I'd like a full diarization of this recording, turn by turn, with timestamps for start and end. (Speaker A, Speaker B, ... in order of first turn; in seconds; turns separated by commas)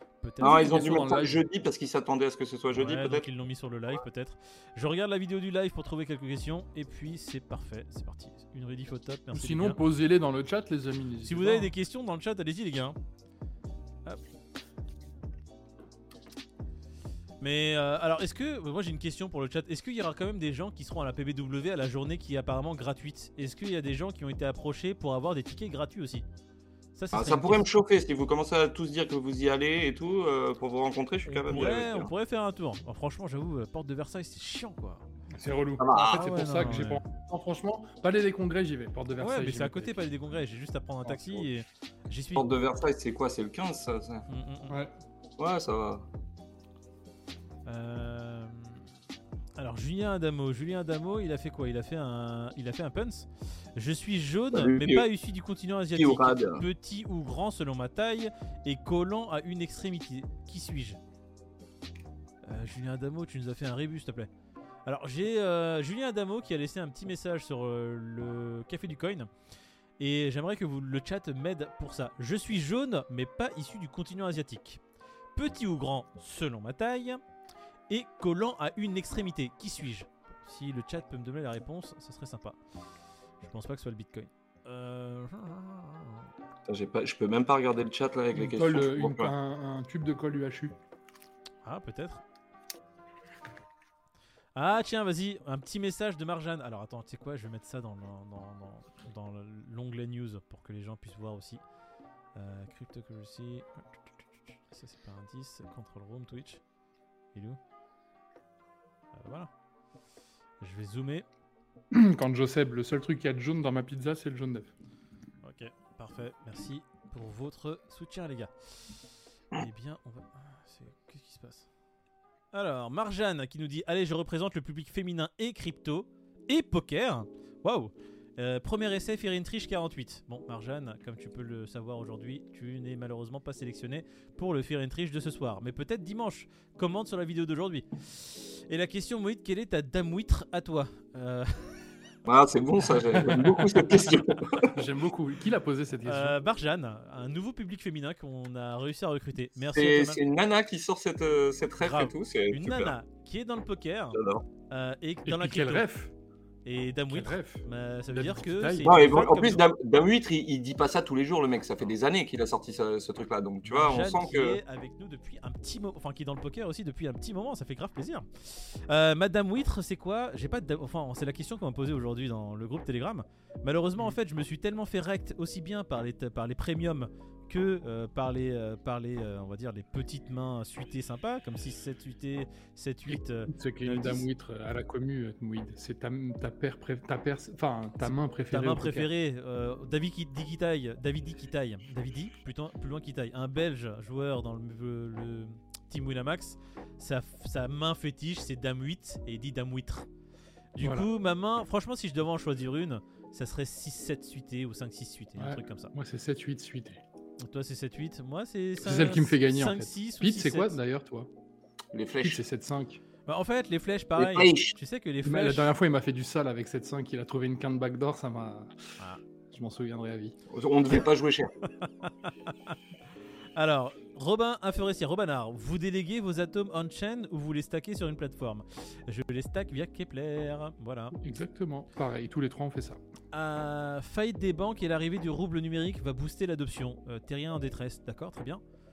Speaker A: 0.2-1.0, Speaker B: 0.4-1.4, Speaker C: 0.4-3.3, Speaker A: 2.7-9.8, Speaker B: 9.3-11.7, Speaker A: 11.2-13.0, Speaker A: 17.4-26.2, Speaker A: 26.9-27.7, Speaker C: 27.1-32.1, Speaker A: 31.3-35.1, Speaker B: 35.3-40.0, Speaker C: 35.8-36.6, Speaker A: 36.0-37.0, Speaker A: 39.2-42.5, Speaker B: 41.1-41.5, Speaker C: 42.4-44.2, Speaker A: 44.3-44.8, Speaker C: 45.4-46.0, Speaker A: 47.7-48.9, Speaker A: 49.6-61.0, Speaker C: 54.5-55.1, Speaker C: 56.0-56.6, Speaker A: 62.4-64.3, Speaker A: 64.9-69.3, Speaker A: 70.0-74.8, Speaker A: 75.3-77.2, Speaker A: 77.9-82.6, Speaker A: 83.4-86.3, Speaker C: 86.7-89.3, Speaker B: 88.3-90.8, Speaker A: 91.6-92.2, Speaker A: 94.5-101.6, Speaker A: 102.3-106.6, Speaker A: 107.3-107.6, Speaker A: 109.1-109.5, Speaker A: 110.6-111.3, Speaker B: 111.9-114.7, Speaker A: 115.4-118.5, Speaker A: 119.5-121.7, Speaker A: 122.5-141.9, Speaker C: 142.3-144.7, Speaker B: 143.1-143.9, Speaker B: 144.6-146.4, Speaker A: 146.1-150.2, Speaker C: 149.7-152.9, Speaker A: 151.8-154.2, Speaker C: 154.2-154.4, Speaker A: 154.7-155.8, Speaker B: 155.2-156.1, Speaker A: 156.7-159.6, Speaker B: 157.1-159.1, Speaker C: 158.8-164.6, Speaker A: 163.7-184.2, Speaker B: 183.1-189.1, Speaker A: 188.1-200.1, Speaker A: 200.7-205.9, Speaker B: 200.8-201.1, Speaker B: 205.4-207.0, Speaker A: 207.4-210.8, Speaker B: 208.8-211.3, Speaker C: 211.9-212.4, Speaker B: 212.2-213.0, Speaker A: 213.3-215.7, Speaker C: 214.2-214.8, Speaker B: 215.2-218.7, Speaker B: 219.5-220.4, Speaker C: 220.5-221.6, Speaker A: 221.8-222.8, Speaker A: 223.6-231.2, Speaker B: 231.2-233.0, Speaker A: 233.3-238.6